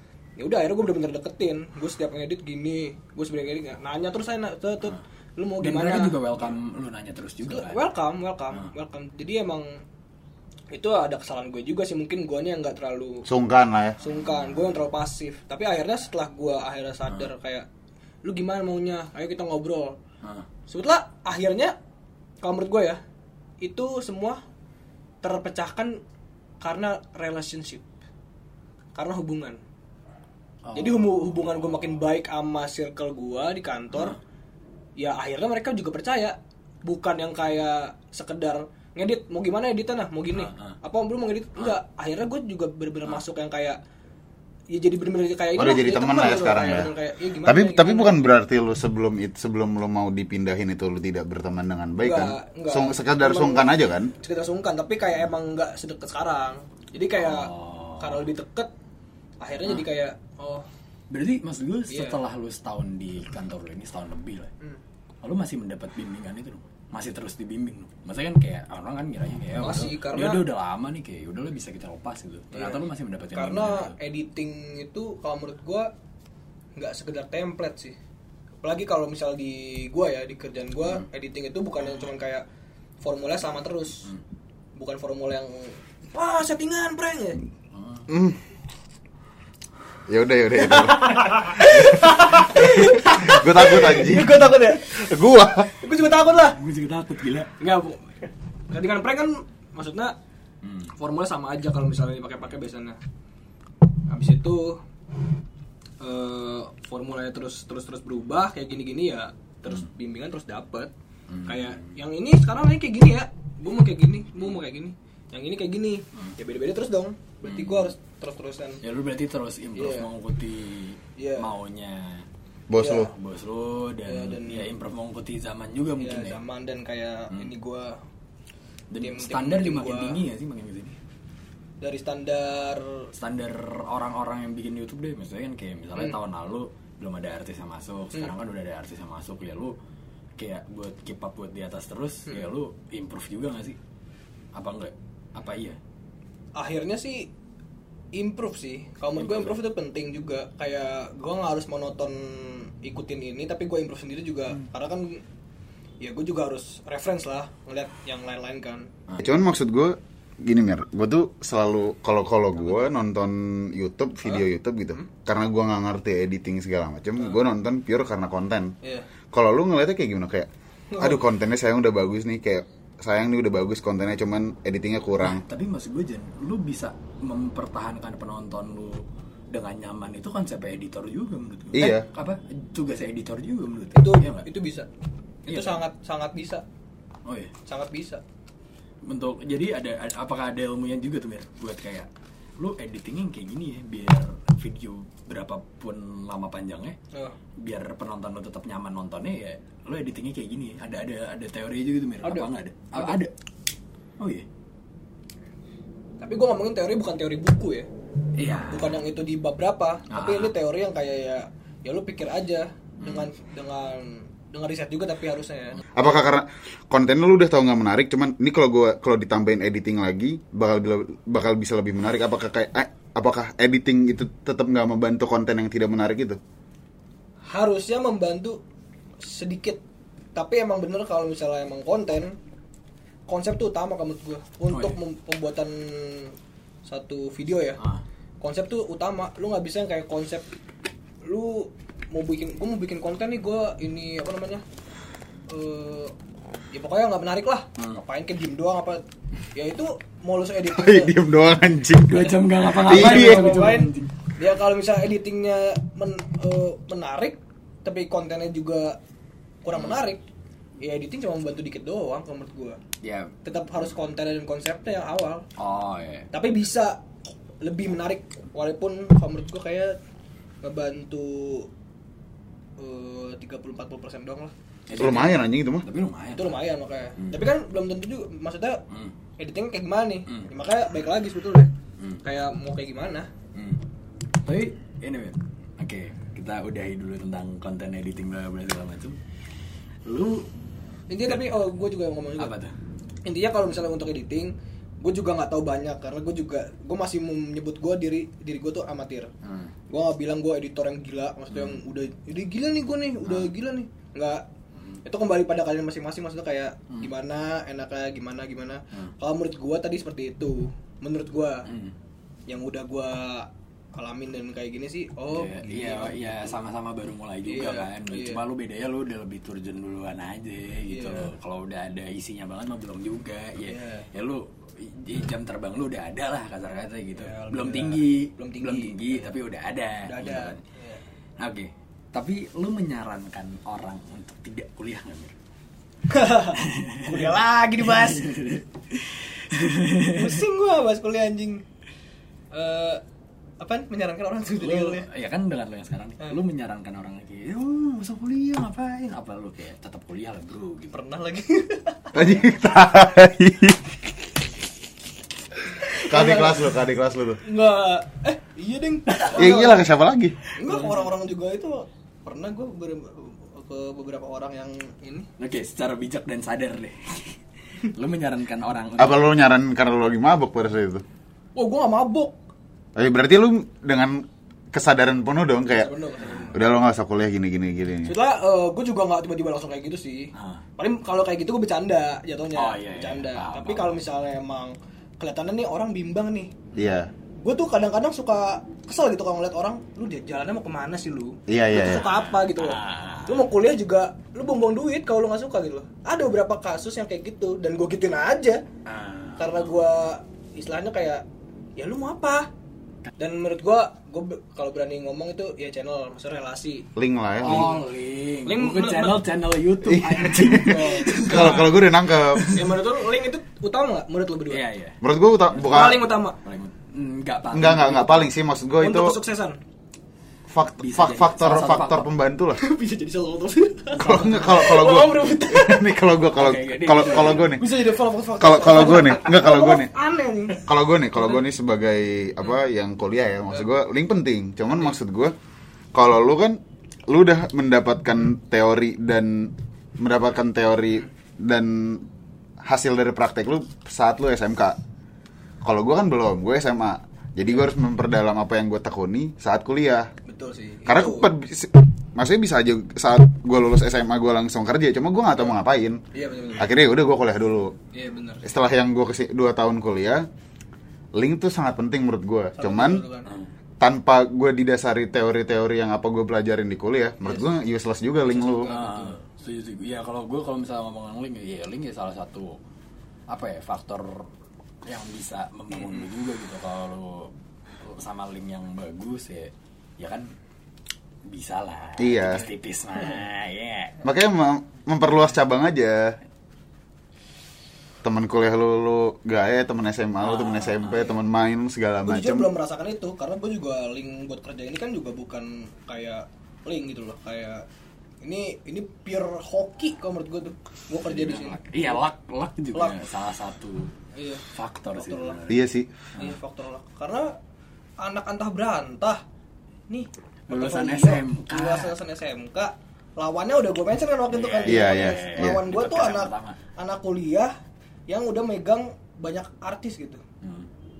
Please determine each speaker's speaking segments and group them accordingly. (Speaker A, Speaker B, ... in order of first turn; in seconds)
Speaker A: 0.4-6.2, 7.4-9.7, 10.7-13.2, 14.0-17.6, 18.2-20.0, 20.7-21.7, 22.4-23.0, 23.6-24.4, 25.2-26.0, 26.6-27.8, 28.9-29.6, 30.7-34.1, 35.0-43.8, 44.7-48.3, 52.0-58.7, 59.4-60.6, 61.9-62.2, 69.6-70.4, 72.5-72.8, 73.3-75.9, 76.8-78.0, 78.6-82.4, 83.0-84.1, 84.8-87.4, 90.5-95.1, 95.8-96.6, 97.6-98.2, 98.7-100.1, 101.0-103.0, 104.1-104.8, 106.0-110.9, 111.4-118.8, 119.8-120.1, 121.2-121.5, 122.8-123.1, 124.0-124.7, 126.0-128.0, 129.0-130.2, 131.8-133.1, 146.6-147.3, 148.1-155.2, 156.0-158.9, 164.2-165.1, 170.9-171.2, 183.9-184.9, 185.4-186.6, 187.7-188.2, 202.2-203.2, 206.2-207.9, 208.7-216.1, 227.5-228.6, 229.2-229.8, 230.3-232.3, 233.3-236.3, 236.8-237.8, 238.4-240.5, 241.2-244.6, 245.5-246.1, 246.7-249.0, 249.5-251.2, 252.2-259.0, 259.6-260.2, 260.8-262.8, 263.4-265.4, 266.3-267.0, 267.6-269.9, 270.6-271.7, 272.8-274.5, 276.4-278.8, 279.4-281.7, 282.2-283.3, 291.1-292.5, 293.2-299.3, 299.9-304.4, 305.0-311.6, 312.5-316.5, 317.4-318.4, 320.9-321.3, 323.7-324.1, 327.1-329.3, 330.0-331.0, 336.1-338.3, 340.1-341.6, 342.5-343.0, 343.6-345.1, 350.9-352.1, 355.8-356.7, 357.4-359.8, 360.6-365.3, 371.6-372.3, 375.7-376.6, 378.0-386.5, 387.4-398.6, 399.4-401.2, 401.8-402.5, 403.2-406.9, 407.4-407.9, 408.4-409.2, 410.4-411.7, 412.5-414.6, 415.7-416.4, 418.8-419.6, 422.6-425.9, 427.1-430.7, 450.2-451.3, 456.1-456.7, 457.9-458.4, 462.6-463.3, 468.2-469.2, 492.0-497.6, 498.2-502.0, 504.1-505.4, 506.2-507.3, 508.0-509.2, 509.9-517.5, 518.1-520.2
Speaker B: 5.6-7.8, 14.1-14.6, 30.6-31.6, 40.4-40.8, 57.2-58.2, 61.1-64.5, 65.2-73.9, 87.7-88.0, 96.5-97.5, 100.6-100.9, 111.3-111.9, 117.4-117.9, 118.8-122.2, 123.1-126.4, 128.9-131.0, 133.1-139.7, 140.4-143.8, 144.5-145.8, 149.2-149.6, 175.2-184.5, 185.5-185.8, 187.2-187.5, 189.1-192.1, 192.6-197.0, 197.6-203.3, 204.2-204.4, 208.4-208.9, 210.1-210.5, 234.7-235.0, 252.1-254.1, 263.0-263.3, 265.6-266.3, 274.9-276.6, 277.2-277.4, 283.5-283.8, 284.4-289.2, 290.0-290.5, 291.2-291.6, 292.4-292.7, 299.4-299.7, 301.5-301.8, 303.2-303.5, 311.7-311.9, 315.3-330.6, 331.4-335.3, 336.6-340.4, 344.6-351.0, 360.6-361.0, 365.4-369.4, 376.2-376.6, 380.3-380.6, 382.6-384.0, 391.7-393.5, 398.9-399.7, 407.4-412.8, 414.5-418.3, 420.8-422.1, 423.9-425.0, 426.3-427.6, 468.7-472.6, 473.3-474.3, 474.8-480.3, 481.3-484.0, 490.2-491.2, 501.1-503.9, 504.5-505.6, 510.5-511.9, 514.3-516.6, 520.4-520.7
Speaker C: 13.3-14.0, 45.5-46.9, 47.4-54.1, 88.1-88.4, 90.1-95.7, 122.7-123.1, 159.2-168.7, 169.3-170.5, 171.0-175.4, 181.7-182.1, 215.9-226.4, 250.7-253.8, 275.0-275.9, 352.1-354.0, 356.1-357.4, 359.4-360.4, 369.0-371.0, 372.9-375.9, 376.5-378.1, 386.7-387.1, 391.5-392.1, 406.9-407.7, 409.9-412.5, 415.0-416.0, 417.5-419.1, 420.5-422.6, 424.0-427.7, 428.4-429.9, 430.6-435.3, 435.9-442.1, 442.6-444.8, 445.6-450.1, 450.9-456.0, 456.6-457.7, 458.4-460.2, 461.1-463.0, 463.8-468.7, 482.0-482.4, 484.0-486.2, 488.0-492.5, 505.5-505.9, 514.6-515.6